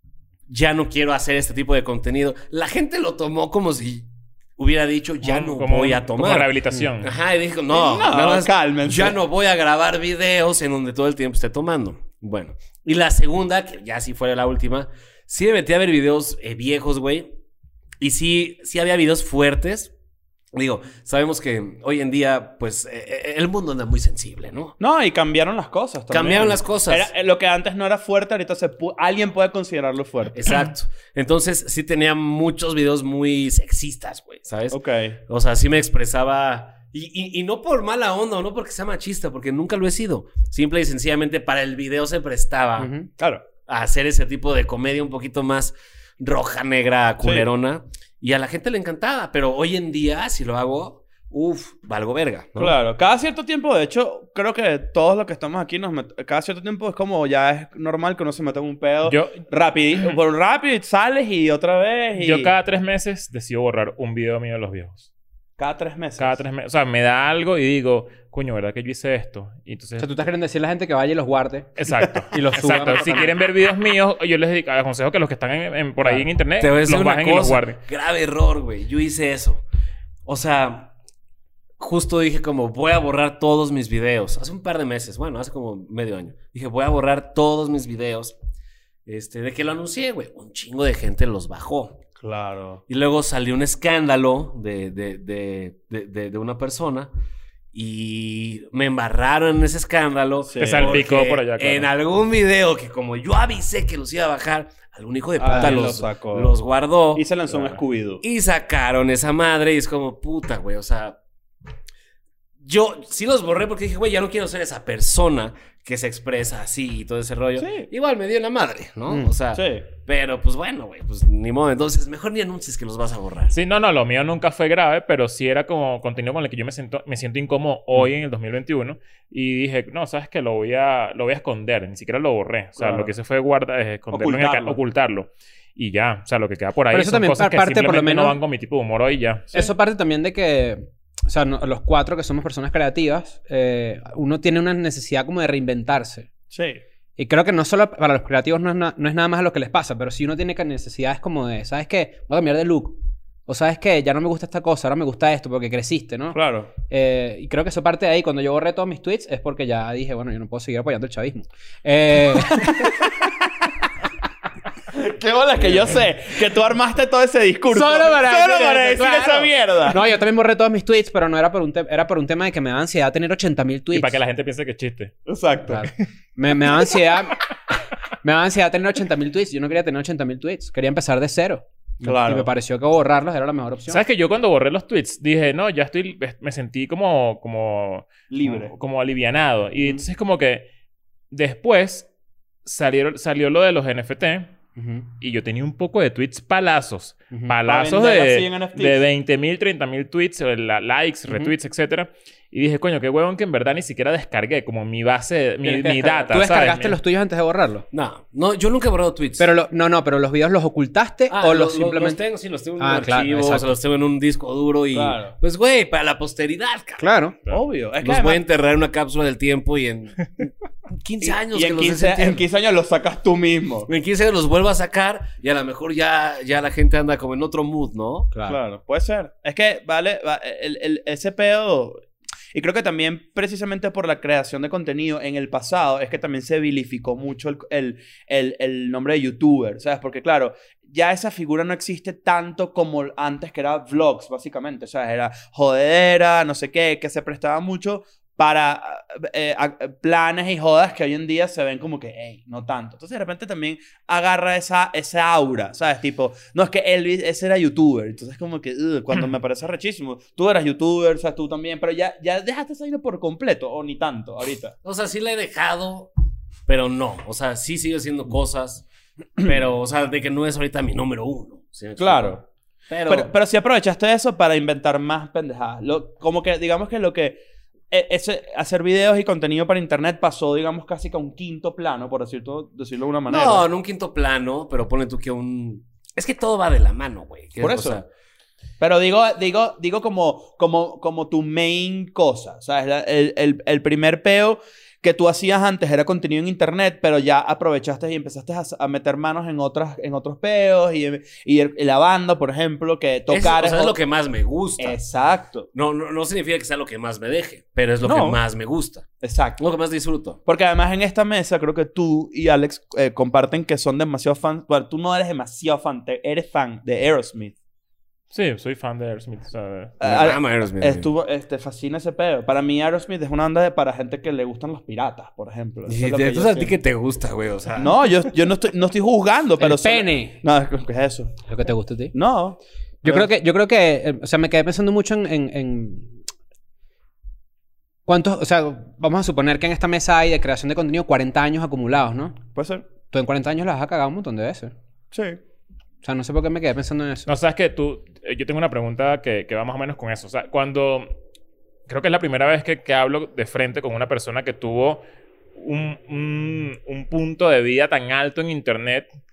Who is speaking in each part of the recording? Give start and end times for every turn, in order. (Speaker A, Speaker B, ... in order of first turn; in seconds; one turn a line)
Speaker A: 0.5-17.4
Speaker B: 5.2-7.1
Speaker C: 7.7-9.2
Speaker A: 18.0-19.9
Speaker A: 20.5-24.8
Speaker C: 24.8-30.4
Speaker A: 26.1-27.1
Speaker A: 30.4-42.9
Speaker C: 34.7-35.2
Speaker D: 42.8-43.1
Speaker C: 43.2-43.4
Speaker A: 43.6-52.8
Speaker C: 47.2-47.5
Speaker C: 52.5-62.5
Speaker B: 59.0-59.4
Speaker B: 62.2-65.0
Speaker C: 65.6-66.4
Speaker B: 66.2-70.1
Speaker D: 70.0-73.3
Speaker B: 71.8-77.8
Speaker D: 76.0-76.3
Speaker A: 76.6-79.6
Speaker A: 80.2-80.9
Speaker A: 81.8-88.3
Speaker A: 89.1-92.0
Speaker C: 92.2-92.8
Speaker A: 92.9-97.1
Speaker A: 97.7-107.3
Speaker C: 100.5-101.1
Speaker B: 100.6-101.9
Speaker C: 105.4-106.6
Speaker C: 107.1-108.2
Speaker A: 108.2-111.2
Speaker A: 112.6-123.6
Speaker C: 117.6-117.9
Speaker C: 119.5-119.9
Speaker B: 123.5-139.5
Speaker C: 132.8-133.1
Speaker C: 134.1-134.8
Speaker D: 136.9-138.4
Speaker D: 139.5-146.3
Speaker C: 146.5-146.8
Speaker D: 147.2-163.0
Speaker C: 156.3-156.7
Speaker C: 162.6-163.3
Speaker C: 164.9-170.0
Speaker D: 167.7-174.2
Speaker B: 173.9-175.1
Speaker C: 175.3-175.9
Speaker D: 175.7-177.4
Speaker D: 178.2-184.0
Speaker C: 182.0-182.5
Speaker B: 183.9-190.7
Speaker C: 188.3-188.7
Speaker B: 191.3-192.1
Speaker B: 192.6-194.6
Speaker D: 194.8-195.1
Speaker B: 195.2-207.0
Speaker C: 197.7-199.0
Speaker D: 201.3-201.5
Speaker D: 205.6-207.8
Speaker A: 207.9-209.5
Speaker D: 209.4-212.2
Speaker A: 211.3-217.1
Speaker D: 212.8-213.7
Speaker C: 214.9-215.3
Speaker D: 217.0-217.4
Speaker C: 217.5-218.4
Speaker A: 218.0-222.4
Speaker C: 221.2-223.9
Speaker A: 223.9-228.3
Speaker D: 228.3-228.6
Speaker C: 228.5-232.0
Speaker C: 232.5-264.7
Speaker A: 264.8-266.1
Speaker A: 266.6-268.9
Speaker A: 269.4-273.3
Speaker C: 272.0-272.4
Speaker C: 273.1-283.6
Speaker A: 283.3-288.1
Speaker C: 287.6-288.0
Speaker C: 288.8-304.0
Speaker A: 303.3-305.0
Speaker C: 304.8-305.7
Speaker A: 305.7-309.1
Speaker C: 308.0-308.4
Speaker C: 309.2-309.6
Speaker A: 309.6-310.4
Speaker C: 310.4-317.6
Speaker B: 318.3-320.0
Speaker C: 320.0-326.8
Speaker A: 320.0-321.1
Speaker A: 325.9-328.3
Speaker C: 327.8-331.4
Speaker D: 329.6-330.4
Speaker D: 331.5-332.1
Speaker C: 332.1-333.3
Speaker D: 333.0-336.2
Speaker D: 338.1-342.4
Speaker C: 342.6-342.9
Speaker D: 343.1-344.7
Speaker C: 345.1-345.4
Speaker D: 346.0-347.3
Speaker B: 347.3-351.1
Speaker B: 351.9-355.0
Speaker B: 355.6-359.1